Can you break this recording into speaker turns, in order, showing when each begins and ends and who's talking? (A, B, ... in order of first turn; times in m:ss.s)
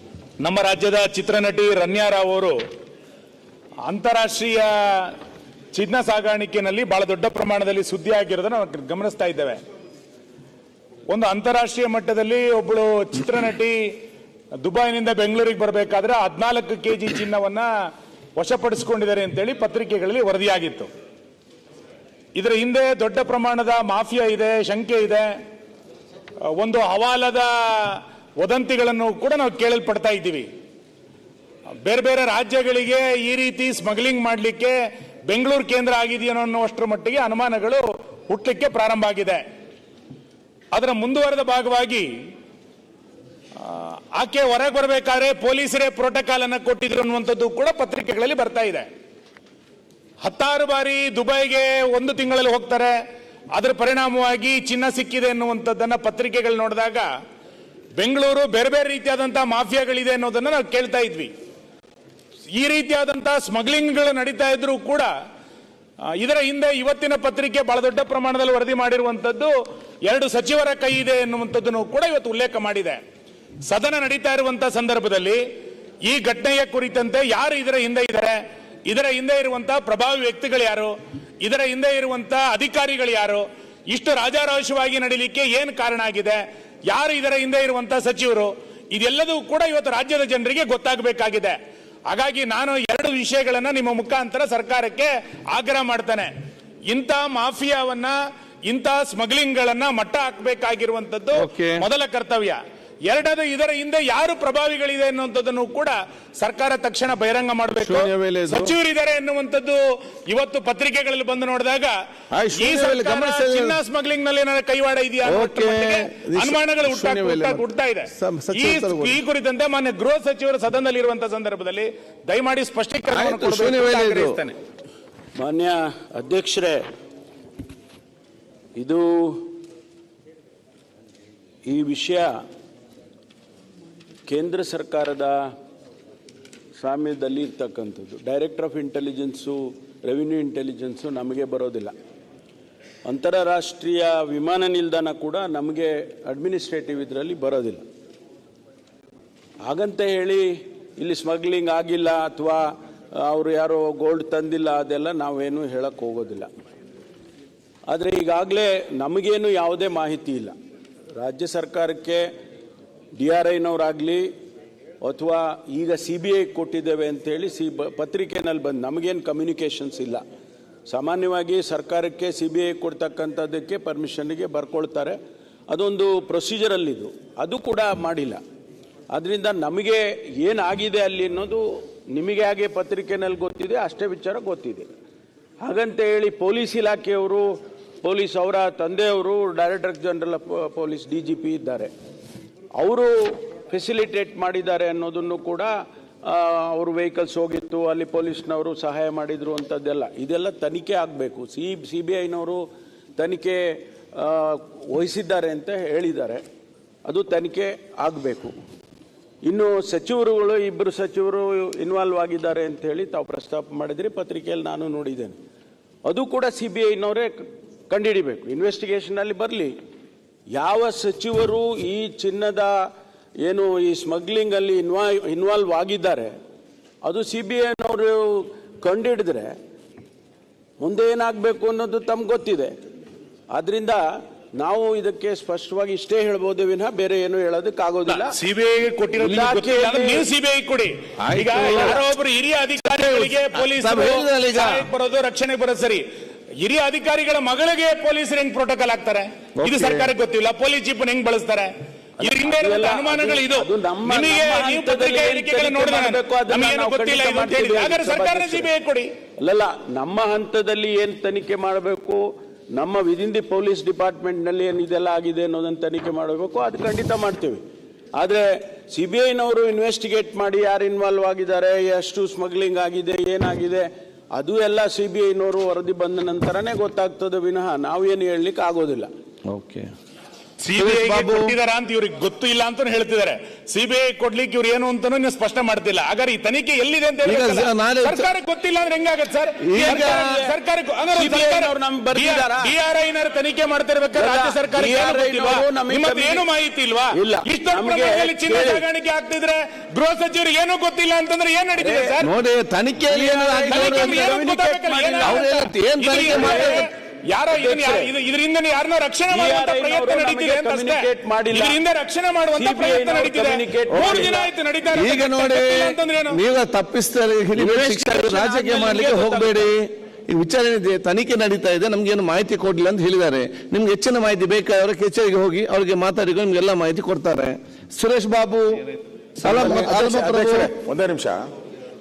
0:00.4-0:02.6 A
0:03.9-0:05.2 A
0:05.7-0:09.6 A
0:11.1-0:13.9 A
0:14.6-0:17.7 A
0:18.4-0:20.9 A
0:22.4-0:25.3 A
0:26.5-0:30.5 A
0:31.8-0:34.8 A
0:35.3-0:39.4 A
0:40.7-0:42.1 A
0:43.6-0:48.9 A
0:50.2-0:52.9 A
0:53.5-0:57.1 A
0:58.0-1:01.3 A
1:02.5-1:05.1 A
1:06.2-1:09.5 A
1:10.0-1:13.0 A
1:13.7-1:15.4 A
1:16.0-1:31.6 A
1:32.1-1:36.3 A
1:36.9-1:38.2 A
1:38.7-1:52.0 A
1:41.4-1:41.8 B
1:47.8-1:48.7 B
1:52.3-1:53.8 B
1:52.6-2:04.6 A
1:55.3-1:57.6 B
1:58.2-1:59.2 B
2:03.1-2:04.4 B
2:05.4-2:06.8 C
2:08.8-2:09.5 C
2:11.7-2:12.3 C
2:14.3-2:15.4 C
2:16.8-2:21.9 C
2:23.1-2:27.8 C
2:29.7-2:30.5 C
2:31.0-2:36.5 C
2:37.9-2:40.5 C
2:41.2-2:42.3 C
2:43.2-2:44.3 C
2:45.0-2:50.2 C
2:50.9-2:55.2 C
2:55.7-2:58.4 C
2:59.1-3:04.9 C
3:05.6-3:07.5 C
3:08.0-3:11.9 C
3:12.8-3:15.7 C
3:16.3-3:22.6 C
3:23.2-3:26.4 C
3:27.1-3:28.5 C
3:29.4-3:35.4 C
3:36.0-3:39.7 C
3:40.6-3:42.8 C
3:43.4-3:46.4 C
3:47.0-3:49.5 C
3:50.8-3:52.8 C
3:53.5-3:54.0 C
3:54.6-3:58.3 C
3:58.1-4:06.0 A
3:59.2-4:00.3 C
4:01.2-4:02.0 B
4:01.6-4:02.0 C
4:03.0-4:04.9 B
4:06.6-4:19.1 A
4:09.6-4:10.1 B
4:12.2-4:18.7 C
4:19.4-4:22.2 C
4:22.7-4:27.6 C
4:28.2-4:39.1 C
4:39.5-4:39.9 B
4:40.6-5:02.3 A
4:40.8-4:41.5 B
4:47.2-4:48.3 B
4:49.6-4:50.4 B
4:49.8-4:50.6 C
4:51.1-4:52.7 C
4:54.2-4:56.5 C
4:57.1-4:58.8 C
5:01.8-5:02.2 C
5:02.2-5:04.4 B
5:03.1-5:06.8 C
5:03.6-5:05.5 A
5:05.2-5:06.9 B
5:06.0-5:16.4 A
5:07.5-5:08.1 C
5:09.3-5:11.8 C
5:12.5-5:14.5 C
5:13.9-5:14.3 B
5:14.9-5:30.7 B
5:17.6-5:19.7 C
5:29.4-5:31.4 D